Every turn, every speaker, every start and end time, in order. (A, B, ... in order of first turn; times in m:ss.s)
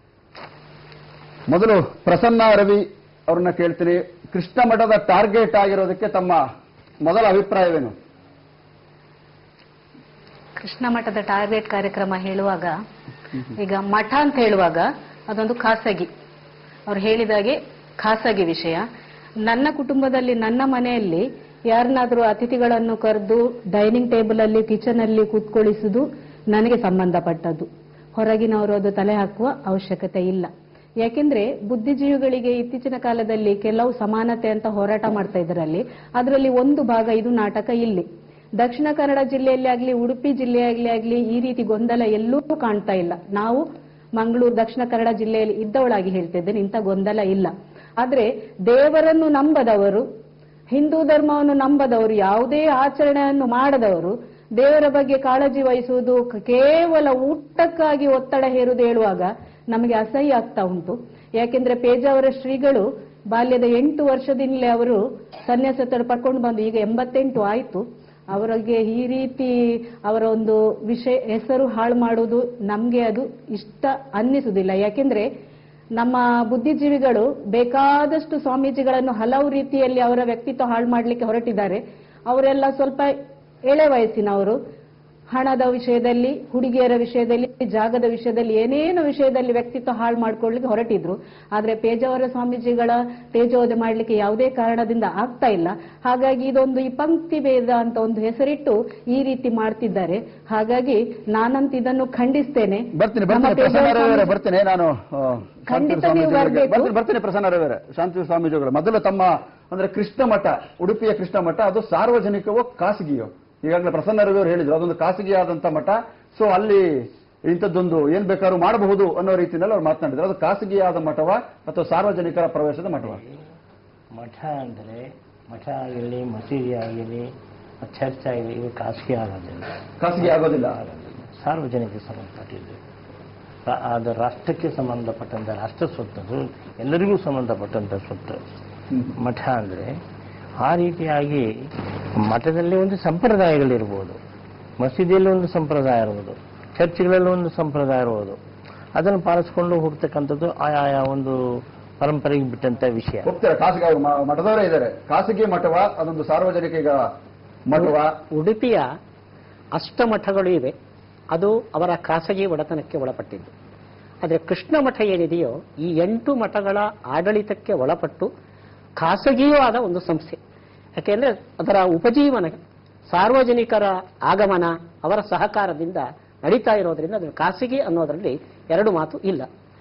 0:01.5-0:06.4 A
0:07.0-0:07.9 A
0:10.6-0:12.7 B
0:13.5-0:16.1 B
0:16.9-0:18.8 B
0:19.4-0:30.5 B
0:31.0-0:38.0 B
0:38.6-0:43.6 B
0:44.2-0:50.0 B
0:50.7-1:09.5 B
1:10.0-1:15.2 B
1:16.0-1:23.1 B
1:23.7-1:24.6 B
1:25.3-1:44.3 B
1:43.0-2:03.2 A
1:45.7-1:46.9 B
2:02.9-2:03.4 C
2:04.1-2:07.3 C
2:07.8-2:12.8 C
2:10.0-2:10.8 A
2:13.6-2:18.4 C
2:19.2-2:19.9 C
2:20.6-2:21.5 C
2:22.2-2:24.2 C
2:24.8-2:28.4 C
2:28.9-2:31.4 C
2:32.0-2:33.3 C
2:33.2-2:37.0 A
2:37.7-2:38.1 A
2:37.8-2:38.8 D
2:39.8-2:40.7 D
2:41.3-2:43.5 D
2:44.2-2:48.3 D
2:49.0-2:50.4 D
2:51.0-2:52.6 D
2:53.1-2:59.5 D